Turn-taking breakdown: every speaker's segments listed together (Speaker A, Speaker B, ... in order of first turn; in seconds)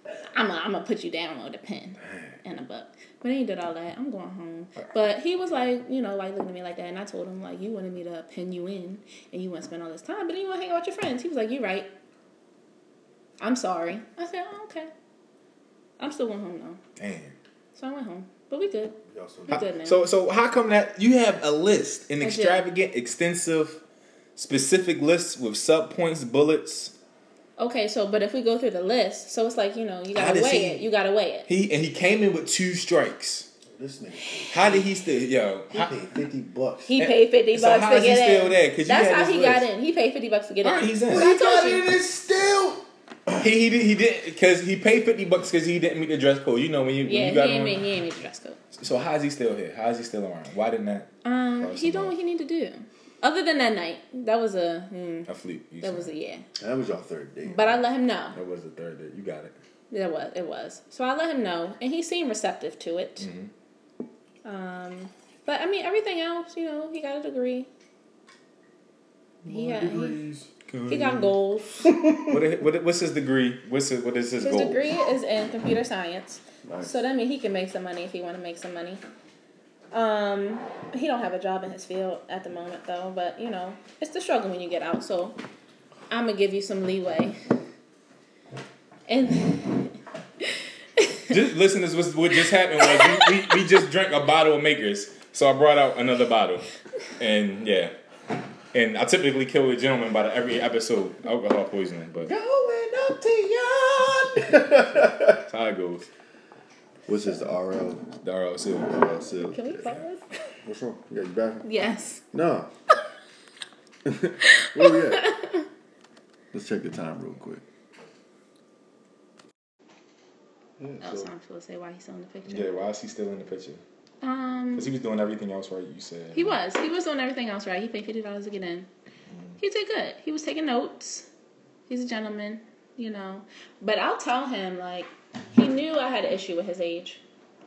Speaker A: 0.3-11.9, 13.4-14.9, 16.0-16.8, 17.7-18.9, 19.5-20.0, 22.2-22.6, 27.6-31.5, 36.9-41.9, 47.0-48.6, 51.2-55.3, 55.8-56.4, 57.5-58.3, 59.9-63.3, 64.4-67.7, 69.5-70.2, 70.9-72.0, 74.4-79.0, 79.9-85.4, 86.1-87.4, 89.1-91.4, 92.8-93.5, 109.5-110.2, 111.6-112.2, 114.4-115.7, 121.0-122.7, 124.2-124.9, 126.3-128.9, 129.6-131.3, 131.9-137.2
Speaker B: 17.0-17.3, 19.5-23.8, 24.4-26.9, 30.1-30.9, 31.5-33.5, 34.5-35.9, 37.0-39.6, 40.6-41.3, 43.4-47.8, 48.7-51.1, 51.6-52.1, 55.3-56.1, 58.3-59.5, 63.2-63.5, 70.7-71.3, 72.2-74.8, 91.3-97.9, 98.7-102.3, 105.3-106.1, 108.2-109.0, 122.5-123.8, 124.7-126.6
Speaker C: 19.1-19.6, 33.7-34.9, 35.7-36.9, 41.1-43.4, 56.6-57.8, 69.4-70.5, 71.8-72.4, 76.6-76.9, 102.2-105.4, 107.1-108.1, 108.8-109.9, 110.6-111.7, 112.3-112.7, 114.0-115.3, 116.5-117.6, 120.8-121.3